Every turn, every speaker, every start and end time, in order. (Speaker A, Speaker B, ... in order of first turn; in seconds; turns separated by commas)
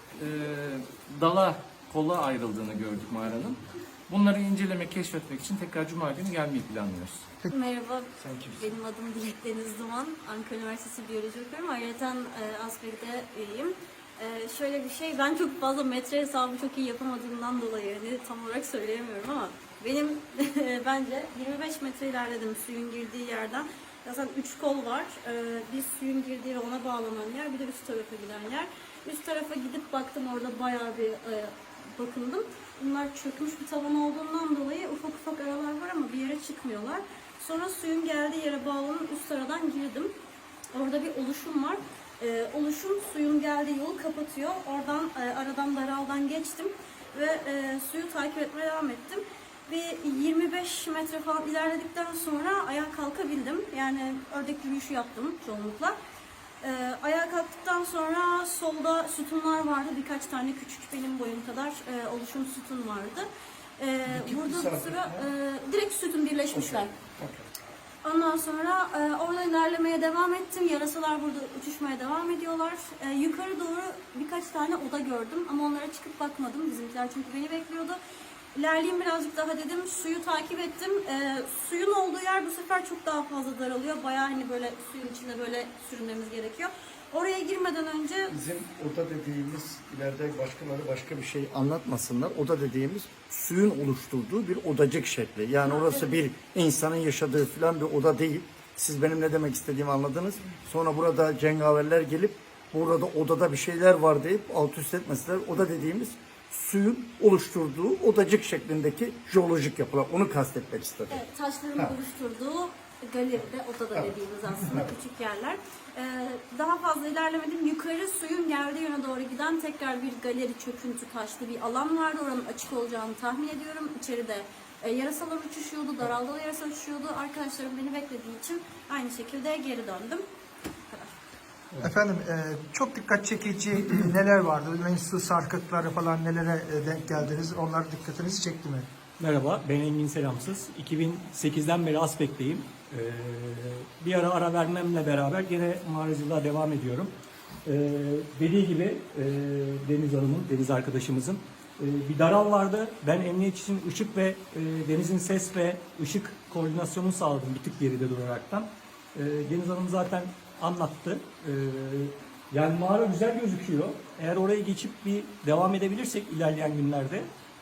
Speaker A: 0.1-7.3, Speaker B: 7.5-40.1, Speaker B: 40.7-56.0, Speaker B: 56.6-63.3, Speaker B: 63.8-67.0, Speaker C: 64.0-65.2, Speaker C: 66.5-67.4, Speaker B: 68.0-78.0, Speaker B: 78.5-88.4, Speaker C: 88.3-111.2, Speaker B: 95.7-96.0, Speaker B: 111.1-130.2, Speaker D: 131.8-138.9, Speaker E: 139.2-167.3